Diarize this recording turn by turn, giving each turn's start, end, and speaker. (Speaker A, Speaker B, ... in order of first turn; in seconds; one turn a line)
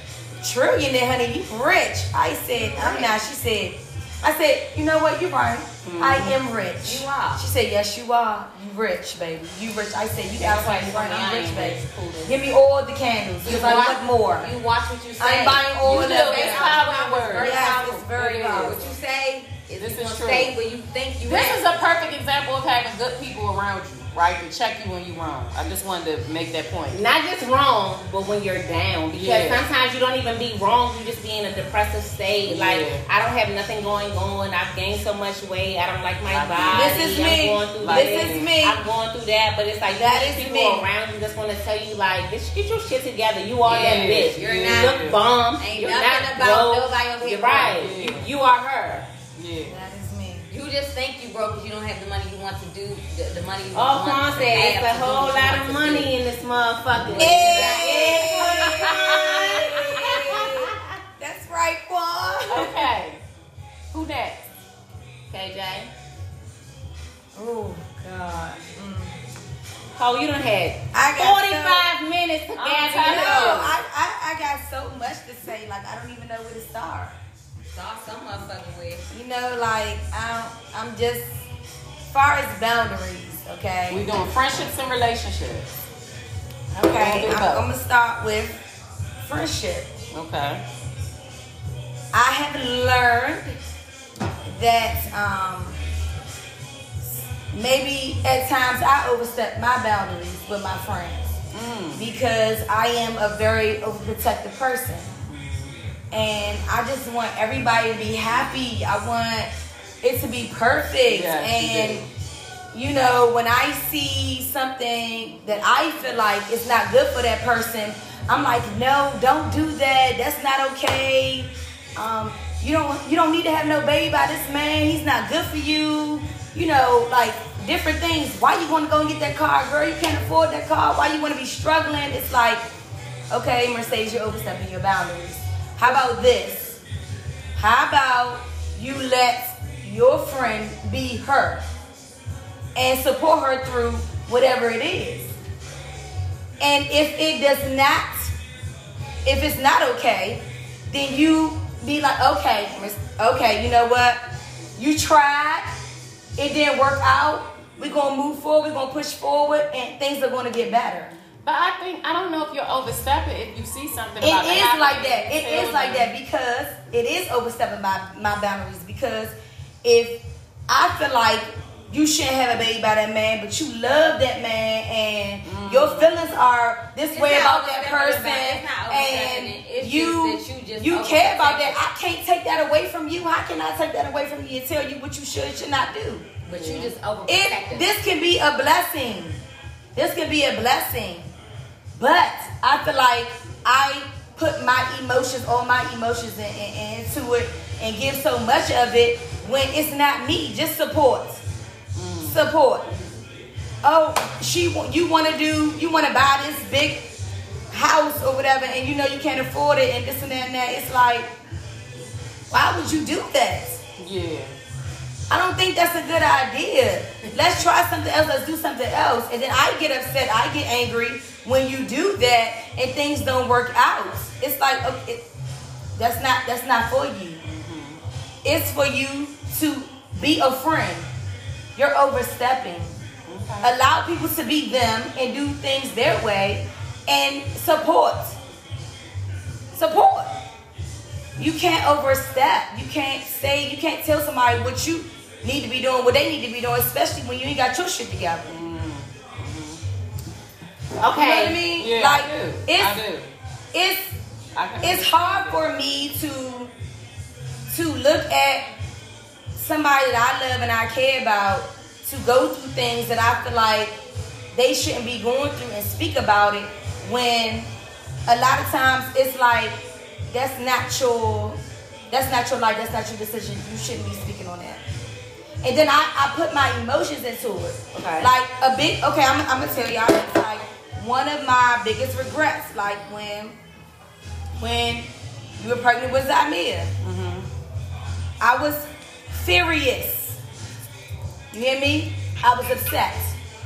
Speaker A: 0.4-14.5
Speaker B: 2.7-3.2
Speaker C: 5.8-6.4
Speaker B: 6.8-7.4
Speaker D: 10.4-12.4
Speaker B: 13.4-21.6
Speaker A: 15.2-16.8
Speaker C: 15.8-19.0
Speaker A: 17.4-18.8
Speaker C: 19.8-20.6
Speaker C: 21.2-27.0
Speaker D: 26.9-49.1
Speaker C: 29.1-29.7
Speaker C: 32.5-33.0
Speaker C: 36.3-37.2
Speaker A: 36.7-38.8
Speaker C: 37.8-38.5
Speaker A: 39.9-40.9
Speaker C: 43.6-45.2
Speaker B: 43.8-47.9
Speaker C: 47.4-48.3
Speaker C: 49.4-49.8
Speaker A: 49.6-50.5
Speaker B: 50.5-56.1
Speaker D: 53.7-60.7
Speaker C: 57.0-57.4
Speaker B: 57.1-58.4
Speaker A: 57.2-62.9
Speaker C: 62.5-63.2
Speaker C: 63.9-64.5
Speaker D: 65.3-65.9
Speaker A: 67.3-69.2
Speaker D: 70.0-73.7
Speaker A: 70.9-71.9
Speaker C: 72.6-73.7
Speaker A: 72.8-77.2
Speaker B: 77.7-79.1
Speaker A: 79.1-81.4
Speaker A: 82.1-84.1
Speaker C: 83.9-85.7
Speaker A: 86.7-88.6
Speaker C: 86.8-87.7
Speaker A: 89.2-89.9
Speaker C: 90.1-90.6
Speaker A: 92.1-93.6
Speaker A: 94.5-95.8
Speaker A: 97.5-101.3
Speaker C: 101.5-102.1
Speaker A: 101.9-105.1
Speaker C: 105.3-105.7
Speaker A: 106.1-109.5
Speaker A: 110.0-112.0
Speaker C: 111.1-112.1
Speaker A: 112.7-132.6
Speaker A: 133.3-136.8
Speaker A: 137.6-141.6
Speaker A: 142.8-145.3
Speaker A: 146.6-148.3
Speaker A: 149.2-154.2
Speaker A: 154.8-155.8
Speaker A: 156.4-161.1
Speaker C: 161.4-166.1
Speaker A: 164.2-186.3
Speaker C: 175.4-176.2
Speaker B: 177.1-181.8
Speaker B: 186.4-187.9
Speaker C: 186.6-186.9
Speaker A: 187.3-189.4
Speaker A: 189.9-191.3
Speaker A: 192.0-201.4
Speaker C: 201.9-202.4
Speaker A: 202.2-202.9
Speaker A: 203.8-207.1
Speaker A: 207.7-211.3
Speaker A: 212.5-213.8
Speaker C: 214.0-214.6
Speaker A: 215.3-225.3
Speaker A: 226.0-227.4
Speaker C: 227.4-228.0
Speaker A: 228.4-231.1
Speaker A: 231.8-233.0
Speaker C: 233.3-233.7
Speaker A: 233.6-238.4
Speaker A: 239.7-240.4
Speaker A: 241.4-248.5
Speaker C: 248.5-249.8
Speaker D: 251.0-251.6
Speaker A: 251.1-253.0
Speaker C: 251.7-253.3
Speaker A: 253.7-254.1
Speaker C: 254.6-255.6
Speaker A: 254.8-256.7
Speaker A: 257.7-258.7
Speaker A: 259.5-263.9
Speaker A: 264.5-267.7
Speaker A: 268.3-271.6
Speaker A: 272.1-274.8
Speaker A: 275.6-283.6
Speaker D: 278.0-278.3
Speaker A: 284.6-286.9
Speaker C: 287.0-287.5
Speaker A: 288.4-290.4
Speaker A: 291.5-293.4